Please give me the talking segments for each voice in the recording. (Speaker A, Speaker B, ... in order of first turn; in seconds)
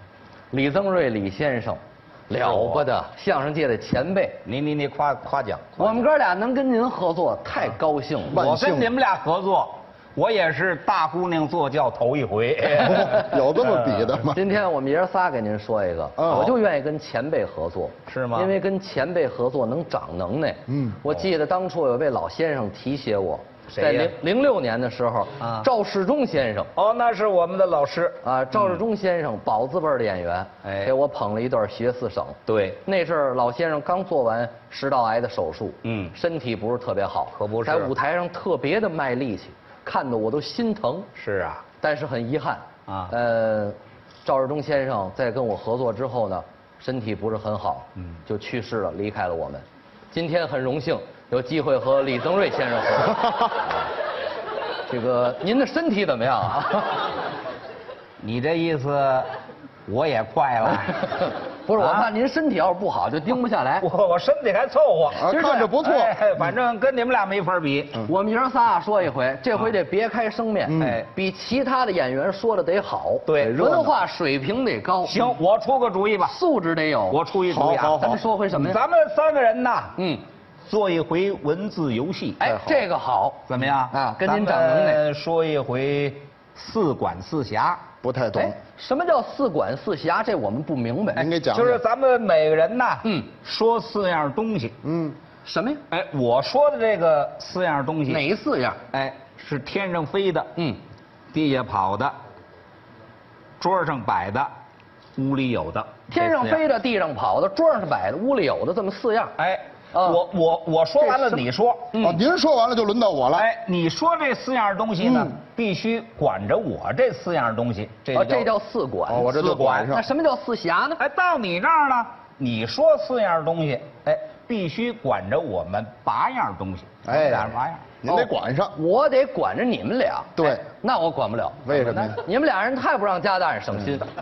Speaker A: 0.5-4.4, 5.8-8.4, 14.2-26.7, 28.2-41.1, 41.8-53.6, 54.9-57.1, 60.8-63.9, 65.2-65.8, 68.0-75.3, 76.2-77.2, 77.9-78.8, 80.0-80.2, 82.4-85.0, 88.3-91.2, 93.0-93.3, 95.5-95.8, 98.1-98.8, 106.1-109.3, 109.9-110.2, 111.0-112.2, 118.1-121.0, 128.1-134.1
Speaker B: 2.3-2.9, 4.5-6.0, 8.3-14.2, 18.1-18.6, 23.7-24.1, 25.4-25.7, 26.8-28.8, 30.6-30.9, 32.5-32.8, 35.9-36.1, 37.4-37.9, 41.2-41.6, 42.9-43.1, 58.2-59.3, 59.9-62.1, 63.8-68.1, 70.8-71.0, 73.3-73.9, 75.0-76.4, 77.1-80.0, 80.7-82.8, 83.5-87.8, 91.2-94.8, 95.9-98.3, 98.9-100.5, 101.3-102.2, 103.6-104.5, 105.2-106.6, 109.4-111.9, 113.3-118.5, 119.1-120.0, 121.0-128.0, 131.7-132.2
Speaker C: 8.3-8.9, 12.8-14.4, 16.2-16.5, 20.7-21.0, 65.2-66.2, 70.7-71.0, 77.5-78.2, 88.0-88.6, 91.2-91.8, 94.8-95.2, 112.0-113.5, 115.0-115.3, 119.1-120.1, 127.0-128.8, 130.4-130.6, 131.6-132.2